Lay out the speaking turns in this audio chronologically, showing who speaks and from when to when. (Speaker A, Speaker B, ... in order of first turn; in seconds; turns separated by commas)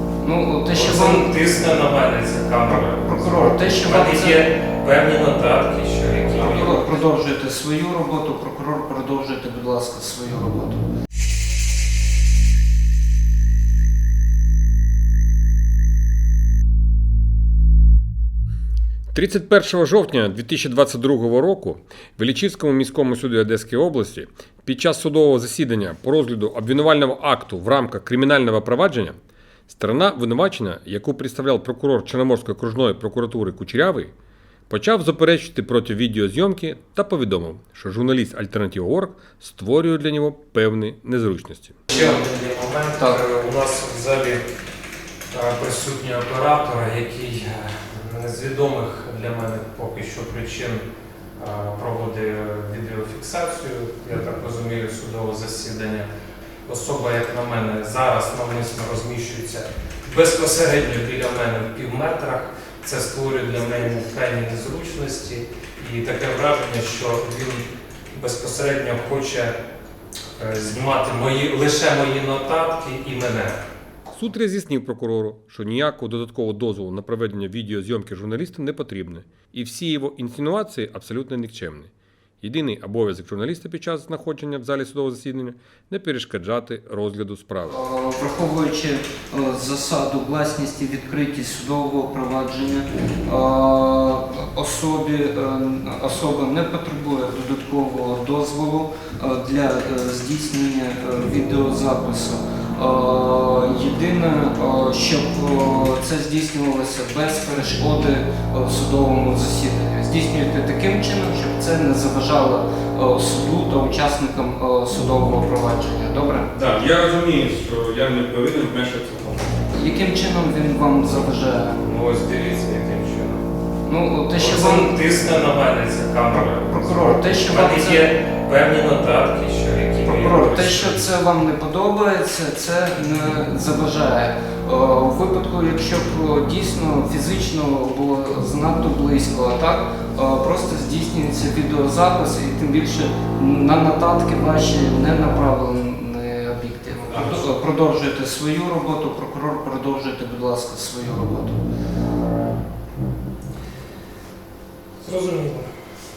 Speaker A: 0.2-1.3, Speaker B: 0.7-7.0, Speaker A: 2.7-4.4, Speaker A: 6.3-10.8, Speaker C: 19.1-29.1, Speaker C: 29.7-34.1, Speaker C: 34.7-41.8, Speaker B: 41.9-44.4, Speaker A: 41.9-42.2, Speaker A: 43.0-43.2, Speaker B: 45.3-50.8, Speaker B: 51.4-56.1, Speaker B: 56.7-69.5, Speaker B: 70.4-73.6, Speaker C: 74.1-87.8, Speaker A: 87.7-116.5, Speaker D: 116.5-119.5, Speaker A: 119.7-121.8, Speaker B: 121.8-123.4, Speaker A: 123.8-124.9, Speaker B: 124.4-131.1, Speaker A: 126.3-128.0, Speaker A: 130.0-151.6, Speaker B: 147.1-147.5, Speaker B: 155.0-155.7